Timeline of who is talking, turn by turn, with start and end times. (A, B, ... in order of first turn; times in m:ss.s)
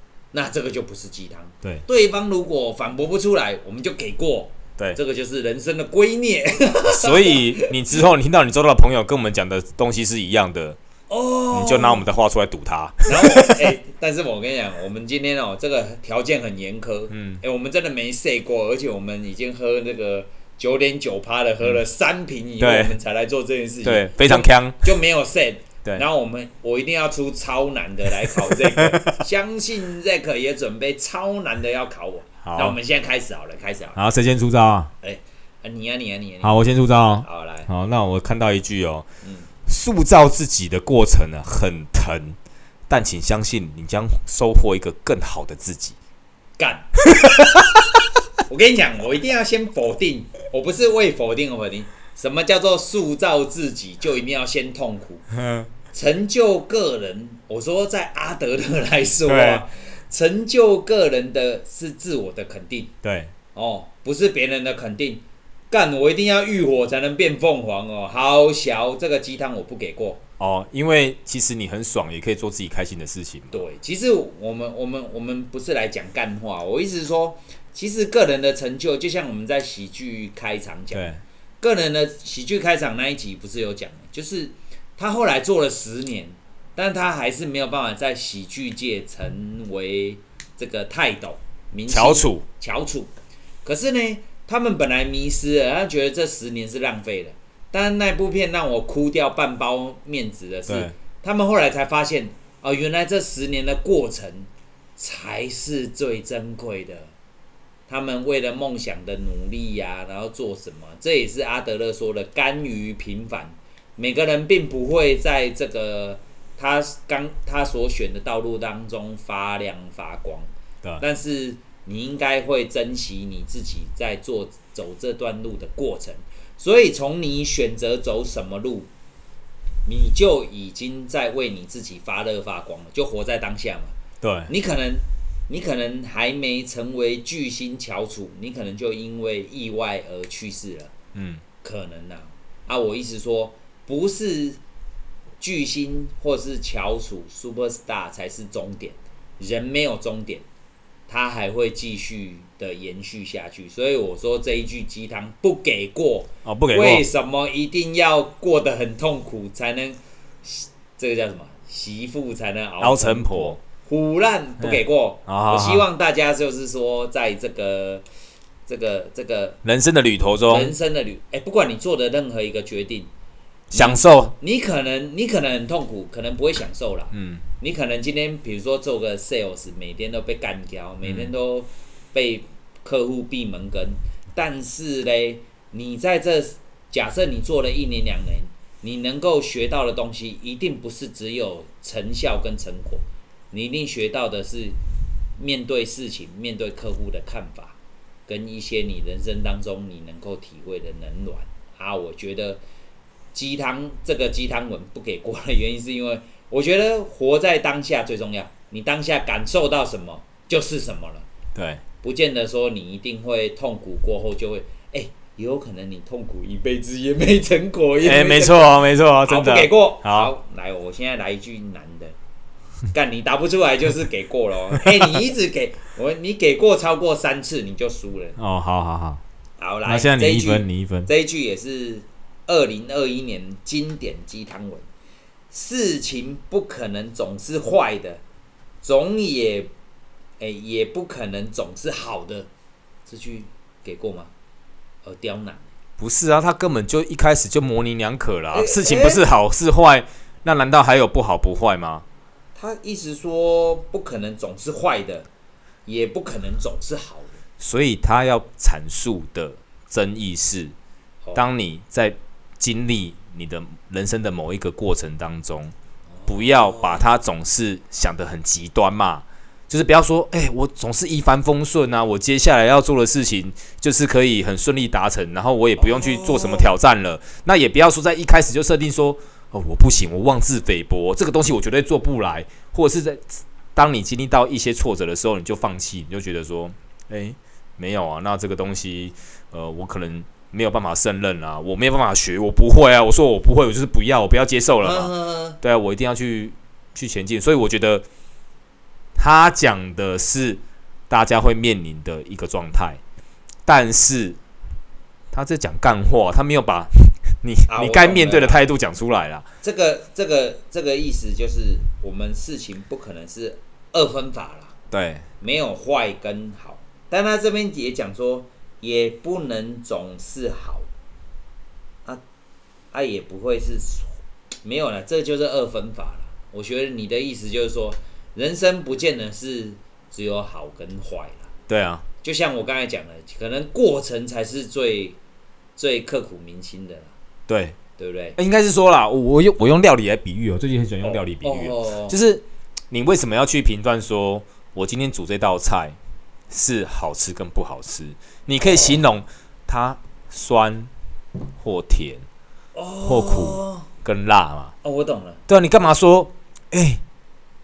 0:00.3-0:08.0 A
0:06.9-0:10.8 B
0:11.1-0:12.0 A
0:11.5-0:13.7 B
0:13.1-0:34.0 A
0:17.1-0:17.4 B
0:22.6-0:23.0 B
0:23.8-0:24.9 B
0:28.3-0:29.0 B
0:32.4-0:32.8 B
0:34.0-0:34.9 B
0:35.0-0:37.7 A
0:36.4-0:39.0 B
0:39.2-0:39.5 A
0:39.7-0:42.4 B
0:42.9-0:46.0 B
0:46.6-0:46.9 A
0:48.5-0:55.3 A
0:55.4-0:55.7 B
0:55.9-1:02.9 A
0:59.3-0:59.6 B
1:03.0-1:03.3 B
1:03.5-1:10.2 A
1:10.4-1:13.6 B
1:13.5-1:21.1 A
1:20.9-1:21.2 B
1:21.6-1:33.1 A
1:31.9-1:32.4 B
1:33.6-1:47.1 A
1:40.7-1:40.9 B
1:47.9-2:08.9 A
2:09.8-2:14.0 A
2:14.2-2:14.5 B
2:14.5-2:20.9 A
2:21.1-2:21.4 B
2:21.6-2:24.6 A
2:25.4-2:30.4 A
2:31.1-2:48.0 A
2:36.4-2:37.1 B
2:42.8-2:43.6 B
2:44.6-2:45.8 B
2:48.7-2:49.6 A
2:49.6-2:50.7 B
2:50.4-2:53.1 A
2:53.7-2:54.3 B
2:53.7-3:14.8 A
2:57.1-2:57.4 B
3:01.0-3:01.3 B
3:15.4-3:22.6 A
3:23.3-3:31.3 A
3:31.5-3:31.8 B
3:32.0-3:42.2 A
3:38.0-3:40.3 B
3:42.9-3:48.4 A
3:48.4-3:49.2 B
3:49.6-3:54.9 A
3:49.8-3:51.1 B
3:55.5-3:58.2 A
3:58.8-3:59.7 A
4:00.4-4:02.5 A
4:03.1-4:04.3 A
4:05.0-4:05.7 A
4:06.0-4:12.0 B
4:08.5-4:09.2 A
4:12.5-4:15.3 A
4:15.9-4:17.4 A
4:17.6-4:20.8 B
4:21.4-4:25.7 B
4:26.1-4:27.0 A
4:26.3-4:58.0 B
4:35.8-4:36.7 A
4:54.8-4:55.6 A
4:59.2-5:03.0 B
5:03.6-5:04.4 B
5:05.3-5:09.5 B
5:07.7-5:08.6 A
5:09.6-5:14.8 A
5:14.9-5:15.2 B
5:15.4-5:20.9 A
5:22.9-5:24.1 A
5:24.6-5:31.5 A
5:31.7-5:32.0 B
5:32.2-5:35.2 A
5:35.8-5:37.1 A
5:37.5-5:37.8 B
5:38.0-5:38.4 A
5:38.4-5:46.0 B
5:41.0-5:42.2 A
5:46.5-5:50.9 B
5:48.6-5:49.0 A
5:51.6-5:52.2 B
5:52.8-5:53.9 A
5:53.0-5:54.7 B
5:54.8-5:55.4 A
5:55.5-5:57.0 B